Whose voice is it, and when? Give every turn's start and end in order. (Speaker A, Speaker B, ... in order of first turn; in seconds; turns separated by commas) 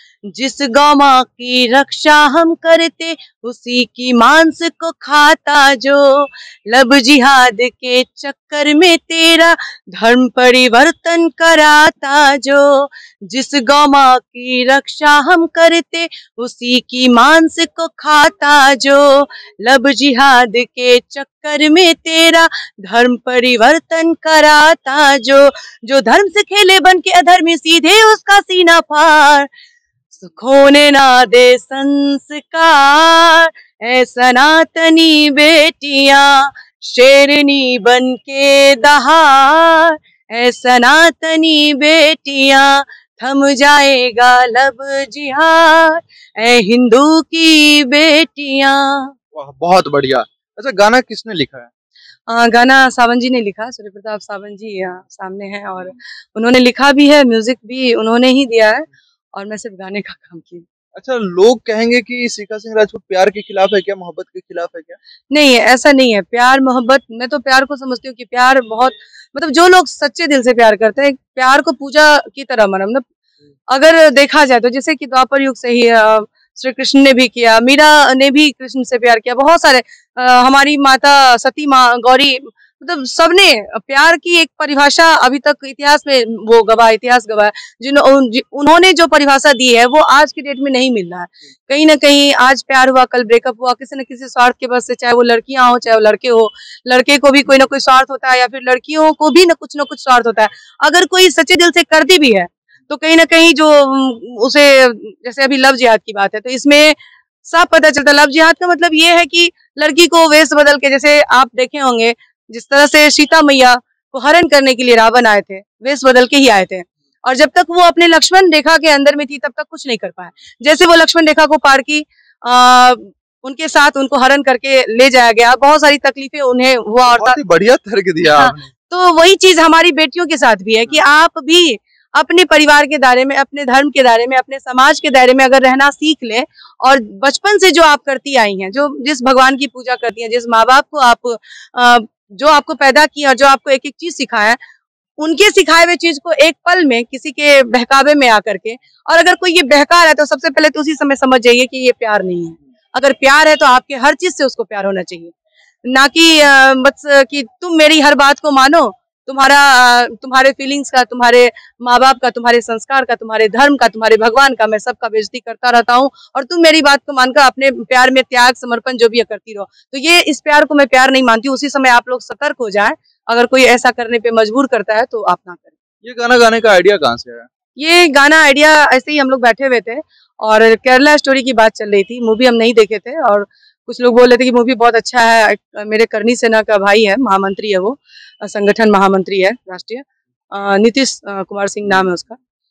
Speaker A: 0.3-29.5, Speaker A: 30.2-49.1, Speaker B: 49.3-51.7, Speaker A: 52.3-60.6, Speaker B: 60.9-65.0, Speaker A: 65.3-73.0, Speaker A: 73.7-127.4, Speaker B: 127.1-128.7, Speaker A: 128.3-144.6, Speaker A: 145.2-155.3, Speaker A: 155.9-175.7, Speaker B: 176.0-177.5, Speaker A: 177.8-192.4